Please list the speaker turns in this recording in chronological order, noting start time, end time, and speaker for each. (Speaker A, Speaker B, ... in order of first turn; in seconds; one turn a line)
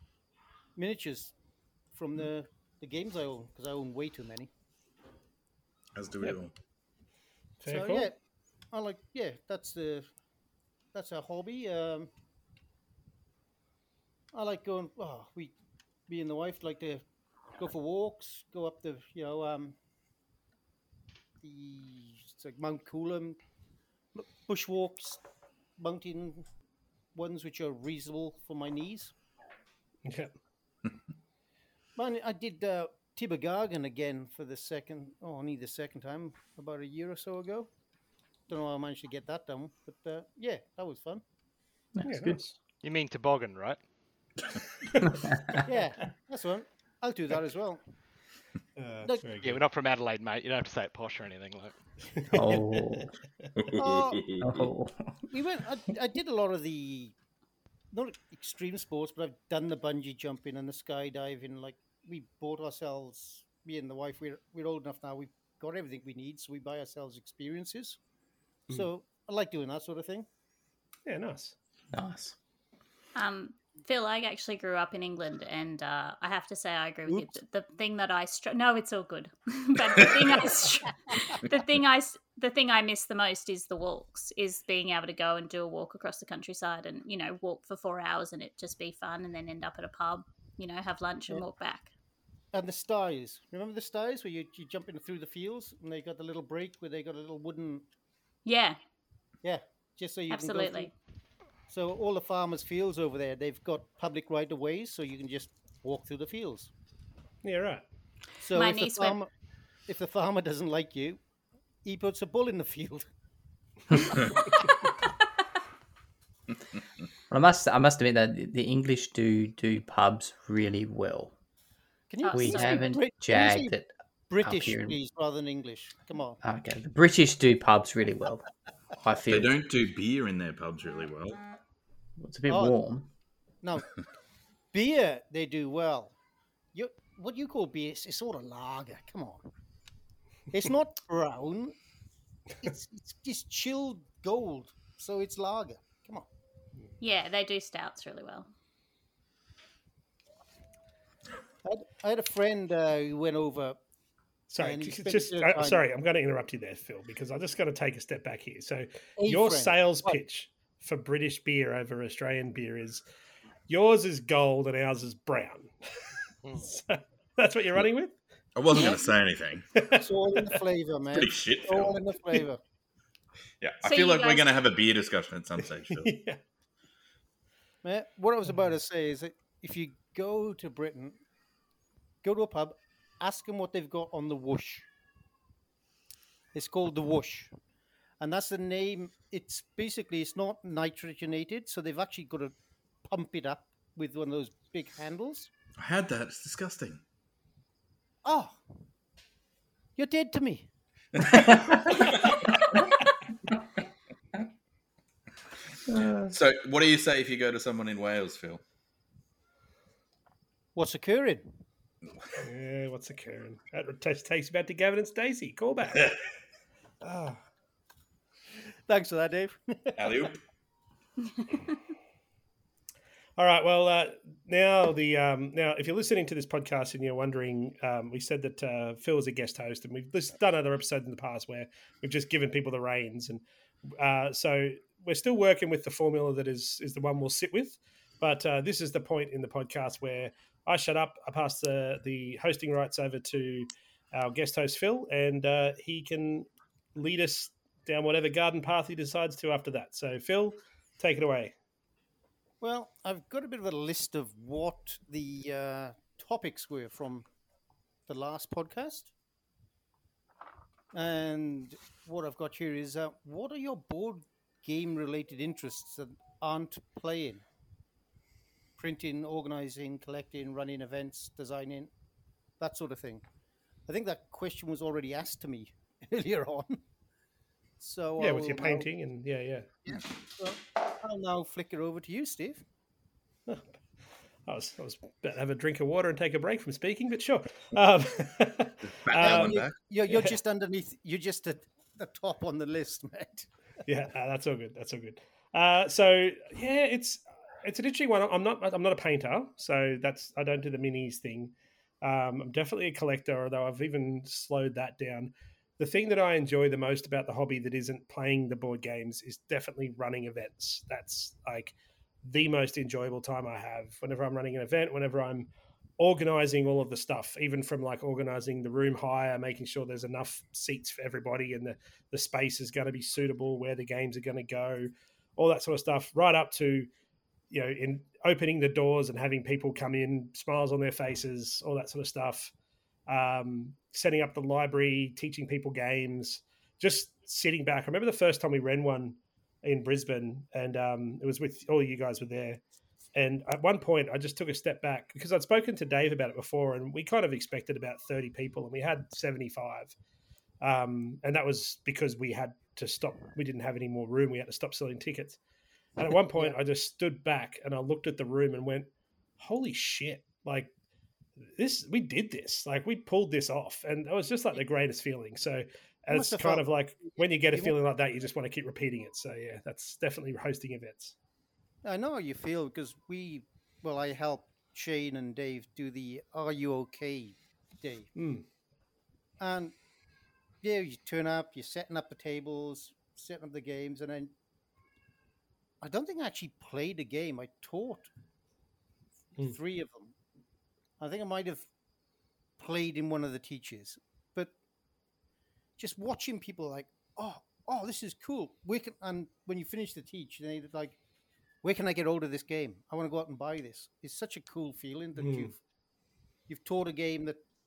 Speaker A: 0.8-1.3
Speaker A: 1.9-4.5
Speaker B: 5.9-6.5
Speaker C: 7.6-8.1
Speaker A: 7.7-8.1
Speaker A: 8.7-10.1
Speaker A: 10.9-12.1
Speaker A: 14.3-15.6
Speaker A: 16.1-19.8
Speaker A: 21.4-23.4
Speaker A: 24.1-25.2
Speaker A: 25.8-26.5
Speaker A: 27.1-29.1
Speaker C: 30.0-30.3
Speaker A: 31.9-37.7
Speaker A: 38.5-41.2
Speaker D: 41.9-42.4
Speaker C: 42.0-42.5
Speaker E: 42.8-43.8
Speaker C: 45.0-45.2
Speaker D: 45.0-45.6
Speaker A: 45.6-47.8
Speaker C: 48.8-49.6
Speaker A: 49.0-49.4
Speaker E: 49.4-51.8
Speaker C: 52.2-53.0
Speaker D: 52.3-53.1
Speaker B: 53.6-54.7
Speaker A: 53.8-54.3
Speaker D: 54.4-55.2
Speaker A: 55.3-57.1
Speaker A: 57.9-68.0
Speaker A: 68.7-70.3
Speaker C: 71.0-71.5
Speaker D: 71.9-72.4
Speaker F: 73.1-91.9
Speaker A: 77.1-77.3
Speaker A: 92.5-97.8
Speaker F: 98.5-98.8
Speaker A: 99.4-100.9
Speaker F: 100.3-100.9
Speaker A: 101.7-106.7
Speaker C: 107.4-107.8
Speaker A: 108.4-109.3
Speaker F: 108.5-109.2
Speaker A: 109.8-111.2
Speaker A: 111.8-113.1
Speaker D: 117.3-121.3
Speaker A: 122.1-123.8
Speaker F: 122.2-122.9
Speaker D: 122.3-125.0
Speaker A: 124.3-126.4
Speaker D: 126.4-129.5
Speaker B: 129.3-131.4
Speaker D: 132.2-133.1
Speaker A: 132.5-132.8
Speaker A: 133.6-133.9
Speaker A: 134.7-136.1
Speaker A: 136.7-139.5
Speaker A: 140.5-141.8
Speaker A: 142.6-146.3
Speaker F: 147.0-148.5
Speaker A: 151.6-153.8
Speaker C: 154.5-163.0
Speaker A: 154.6-155.8
Speaker A: 159.2-160.2
Speaker C: 163.7-165.7
Speaker C: 166.6-168.2
Speaker B: 168.6-169.7
Speaker A: 168.7-169.0
Speaker C: 169.8-170.0
Speaker A: 169.9-172.6
Speaker B: 171.1-172.0
Speaker B: 173.6-176.1
Speaker F: 173.8-174.6
Speaker C: 175.9-176.4
Speaker A: 177.8-181.2
Speaker A: 182.2-184.9
Speaker A: 186.5-187.5
Speaker A: 188.2-195.5
Speaker B: 195.8-197.0
Speaker A: 198.2-198.6
Speaker A: 200.0-200.7
Speaker B: 201.1-202.4
Speaker D: 201.4-202.2
Speaker D: 205.9-206.3
Speaker B: 206.3-208.6
Speaker A: 210.7-211.5
Speaker C: 212.4-216.1
Speaker C: 217.0-217.4
Speaker A: 218.9-220.3
Speaker B: 219.9-220.4
Speaker C: 223.4-251.5
Speaker A: 252.6-257.2
Speaker A: 258.1-259.1
Speaker A: 260.9-267.4
Speaker A: 268.8-271.9
Speaker A: 272.6-273.3
Speaker A: 273.9-276.8
Speaker A: 277.8-278.9
Speaker C: 278.2-279.8
Speaker A: 279.8-282.6
Speaker C: 283.5-283.8
Speaker C: 284.4-289.6
Speaker B: 288.8-289.8
Speaker A: 289.1-293.5
Speaker C: 293.9-326.9
Speaker C: 327.5-332.5
Speaker C: 333.1-342.6
Speaker C: 343.1-349.9
Speaker C: 350.6-355.4
Speaker C: 356.0-360.7
Speaker C: 361.6-371.1
Speaker A: 366.1-367.8
Speaker A: 371.8-378.1
Speaker C: 378.1-378.4
Speaker A: 379.4-379.8
Speaker A: 380.6-384.3
Speaker A: 385.8-388.1
Speaker A: 389.4-390.1
Speaker A: 391.0-391.7
Speaker A: 392.6-394.5
Speaker A: 395.8-401.0
Speaker A: 401.6-405.6
Speaker C: 405.2-405.5
Speaker A: 406.5-407.4